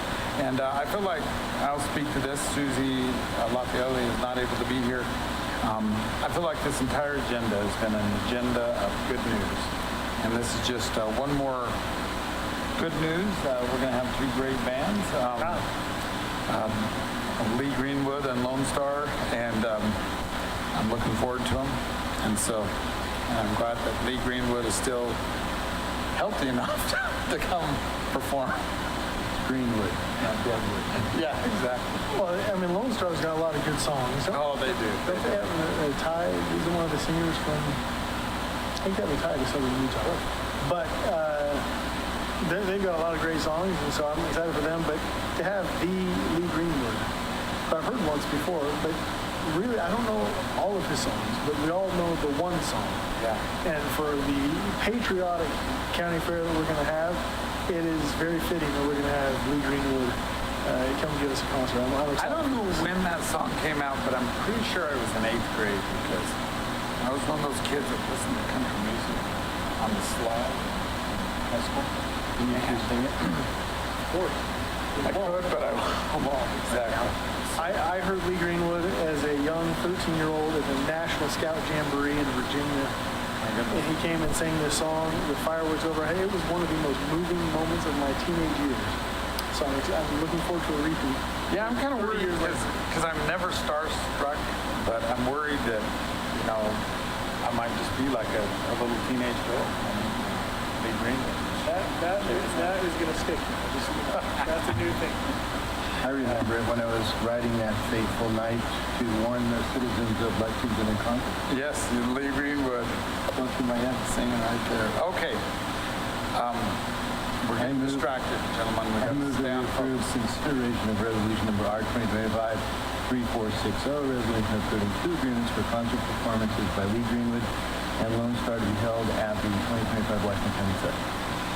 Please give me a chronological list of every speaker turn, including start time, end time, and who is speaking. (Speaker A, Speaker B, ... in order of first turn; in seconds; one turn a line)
Speaker A: 0.4-5.1
Speaker A: 5.6-11.8
Speaker A: 12.8-15.6
Speaker A: 16.5-20.0
Speaker A: 20.7-22.7
Speaker A: 23.3-25.2
Speaker A: 26.1-28.6
Speaker B: 29.2-31.1
Speaker A: 31.1-32.1
Speaker C: 32.1-34.5
Speaker A: 34.3-35.4
Speaker C: 35.0-37.8
Speaker C: 38.8-41.6
Speaker C: 42.4-47.1
Speaker C: 47.7-53.0
Speaker A: 53.1-53.4
Speaker C: 53.6-62.9
Speaker A: 62.2-66.3
Speaker A: 67.0-73.4
Speaker B: 72.4-73.0
Speaker C: 75.0-75.6
Speaker A: 75.0-77.7
Speaker C: 77.5-82.9
Speaker A: 83.4-83.8
Speaker C: 83.7-89.0
Speaker C: 89.5-92.6
Speaker A: 91.5-96.8
Speaker A: 97.4-102.8
Speaker C: 101.6-105.2
Speaker B: 106.0-111.4
Speaker A: 111.5-115.4
Speaker B: 113.4-114.0
Speaker A: 116.3-116.8
Speaker A: 117.4-120.0
Speaker B: 117.5-118.1
Speaker B: 119.0-131.0